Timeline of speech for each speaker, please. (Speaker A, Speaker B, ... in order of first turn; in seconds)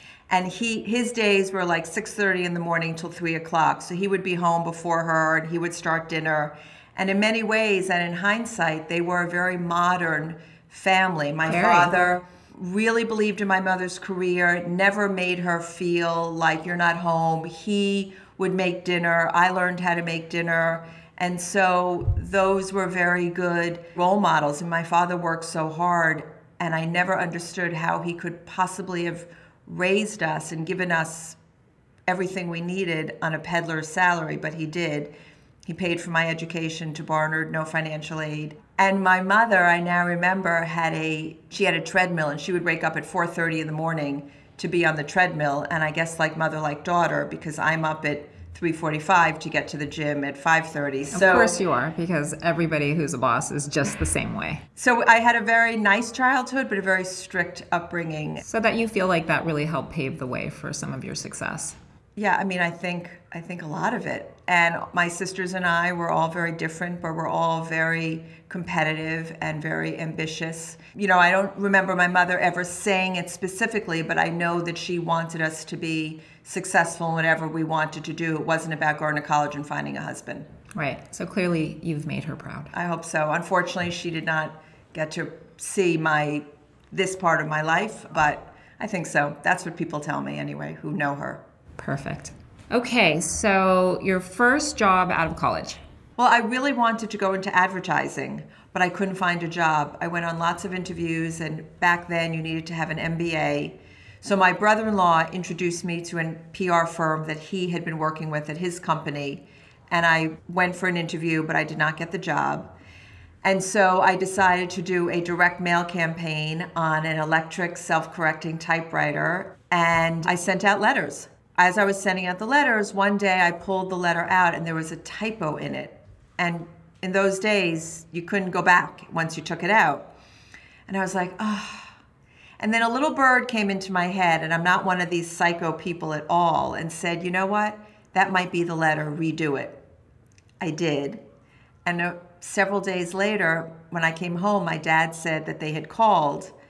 Speaker A: 0.3-31.4, 32.1-35.1, 35.6-51.5, 54.8-58.4, 62.1-80.5, 82.7-91.4, 96.2-112.7, 113.4-130.1, 130.9-131.9, 132.6-139.8, 140.6-141.2, 141.8-146.5
Speaker B: 11.4-11.9, 51.1-54.6, 58.4-61.8, 80.7-82.7, 91.8-95.8